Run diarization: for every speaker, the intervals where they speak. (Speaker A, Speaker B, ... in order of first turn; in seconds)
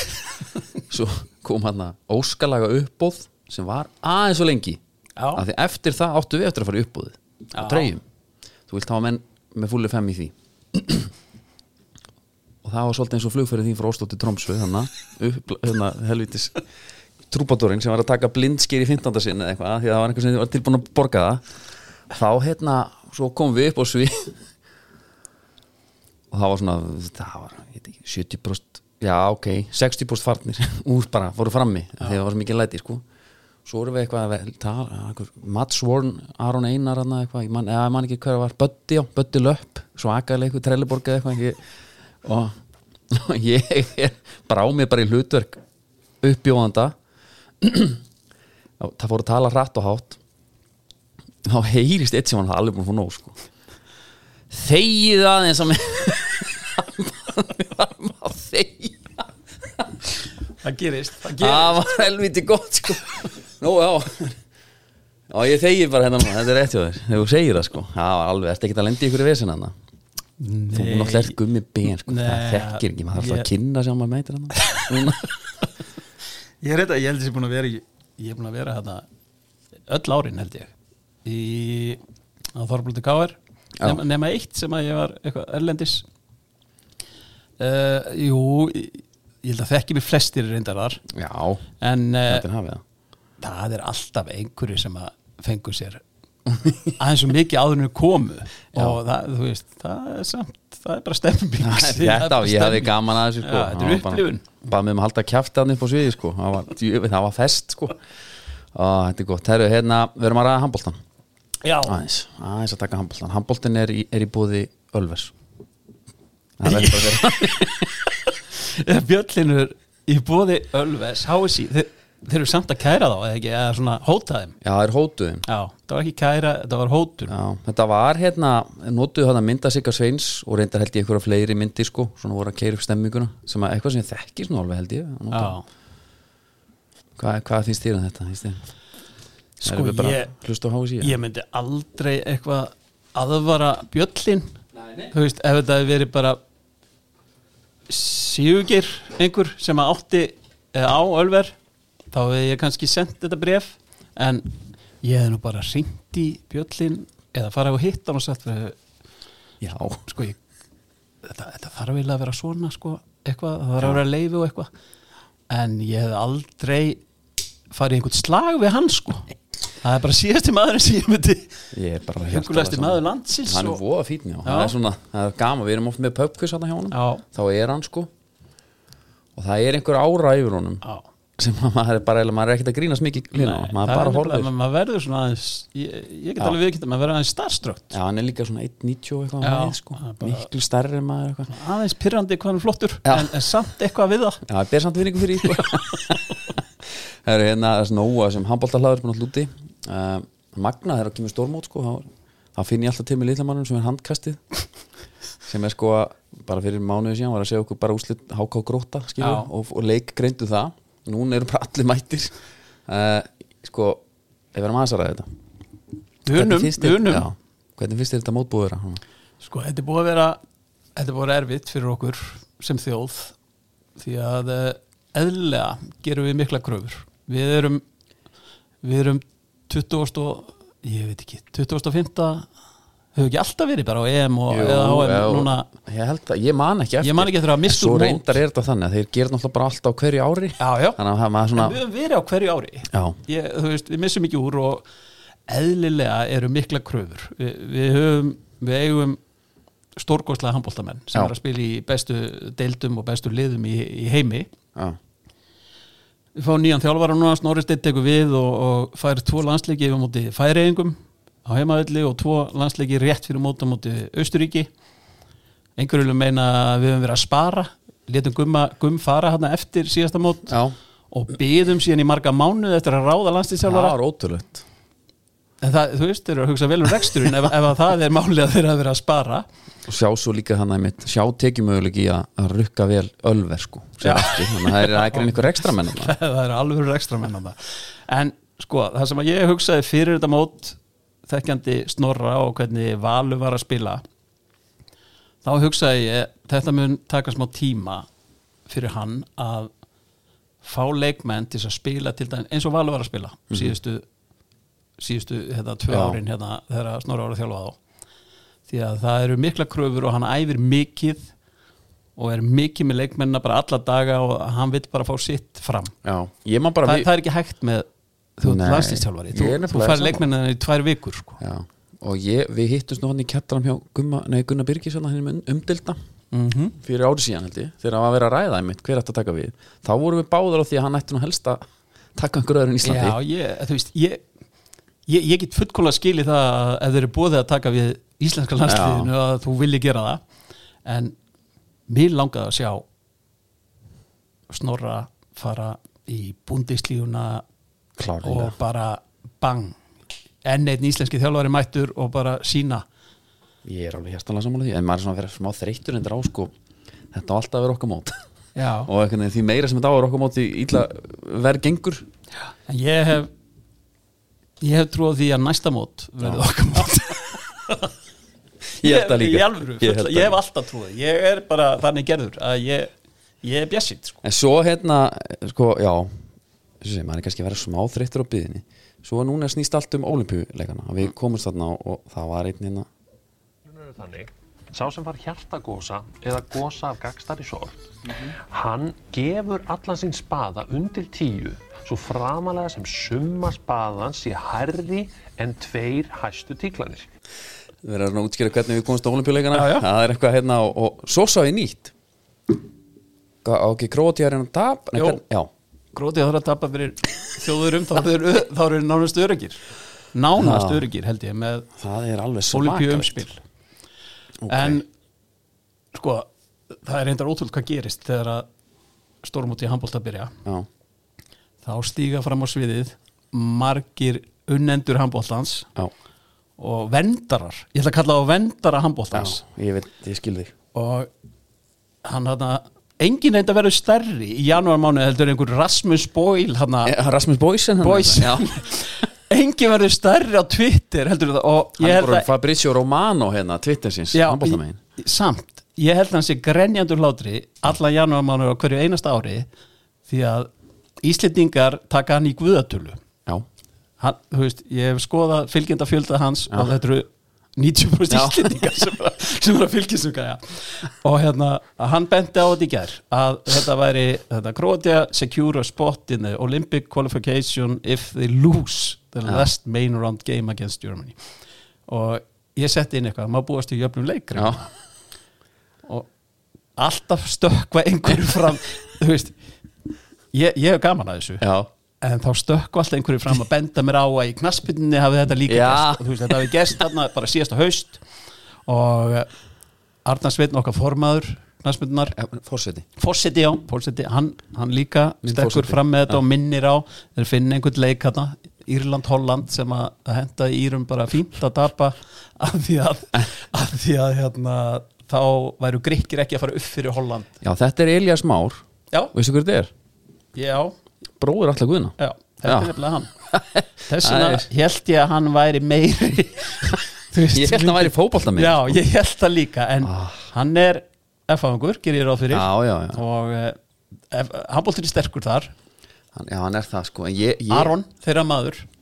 Speaker A: 0.9-4.8, 5.3-8.0, 8.7-11.1, 12.6-16.6, 17.3-21.4, 22.1-24.4, 26.3-33.0, 33.6-41.6, 42.2-42.6, 43.1-45.6, 46.2-47.0, 47.6-48.0, 48.8-50.2, 51.4-53.4, 54.5-60.0, 61.3-64.3, 65.3-69.7, 70.7-75.3, 91.1-91.7, 92.3-92.8, 98.7-99.0, 101.6-108.0, 108.7-111.0, 111.8-115.3, 116.6-117.9, 124.6-125.4, 127.3-135.6, 137.2-138.6, 139.6-141.1, 159.6-160.0, 171.7-178.1, 179.3-180.8, 181.4-184.5, 187.9-191.5, 193.1-193.4, 194.4-196.6, 197.2-204.4, 205.4-214.0, 214.5-215.3, 216.3-219.0, 234.5-241.8, 242.9-243.2, 270.5-270.8, 273.6-274.6, 279.9-286.1, 305.9-306.2, 316.0-317.1, 318.4-320.2, 321.4-326.0, 326.8-331.6, 332.1-333.2, 338.6-339.1, 348.0-348.5, 353.6-356.5, 357.1-358.2, 358.9-362.1, 368.8-370.4, 374.2-376.1, 376.8-382.9, 397.8-401.9, 403.4-405.5, 410.4-410.8, 411.8-413.2, 414.4-414.8, 429.1-430.5, 436.8-438.5, 441.8-444.8, 458.1-458.5, 469.2-469.5, 474.3-474.6, 481.4-481.7, 485.5-486.4, 492.1-492.9, 495.2-496.2, 507.4-508.6, 509.1-509.7, 511.2-514.5, 517.3-518.8, 519.8-520.3, 522.3-523.0, 526.1-527.7
Speaker B: 5.2-5.4, 7.5-7.9, 60.6-61.8, 70.4-71.4, 72.0-73.5, 74.6-75.0, 76.6-79.0, 79.9-80.7, 81.2-82.0, 82.5-86.0, 87.6-91.0, 91.8-92.4, 93.4-96.0, 97.0-104.5, 111.6-112.0, 116.6-124.6, 125.5-127.3, 135.3-135.6, 139.6-140.3, 141.0-144.6, 145.1-146.4, 147.9-151.5, 152.1-158.8, 160.1-160.4, 161.2-164.7, 165.5-167.0, 167.7-171.6, 172.3-173.8, 174.4-174.8, 176.9-177.2, 183.3-187.9, 189.4-190.5, 191.5-194.4, 209.2-209.5, 216.2-217.3, 219.4-220.4, 220.9-223.3, 224.0-227.8, 228.8-232.5, 233.1-235.7, 237.0-238.3, 240.6-241.0, 241.6-244.8, 245.5-249.2, 249.9-254.5, 256.4-264.7, 265.8-270.5, 271.1-273.9, 275.6-279.4, 284.0-294.0, 295.4-298.1, 298.7-299.7, 300.6-304.0, 305.0-307.8, 308.7-311.3, 312.1-315.9, 316.8-317.9, 318.4-321.4, 326.3-326.8, 332.8-334.2, 335.1-340.2, 340.8-341.1, 341.9-342.8, 344.5-347.4, 348.2-349.8, 350.4-352.8, 358.5-358.9, 362.7-363.3, 364.6-367.9, 368.8-374.2, 399.5-399.9, 405.9-409.6, 410.1-411.7, 412.5-413.4, 414.5-414.9, 415.9-418.5, 419.2-420.3, 421.6-425.7, 426.6-429.4, 430.7-431.1, 432.0-436.9, 437.8-442.3, 444.1-449.5, 450.1-450.5, 451.0-453.0, 454.0-471.1, 471.9-474.7, 476.8-479.4, 480.3-481.4, 482.0-488.0, 488.7-489.3, 490.0-492.1, 493.0-507.3, 510.3-510.7, 512.0-513.1, 513.8-523.6, 524.1-525.5, 527.5-528.7
Speaker C: 383.6-397.1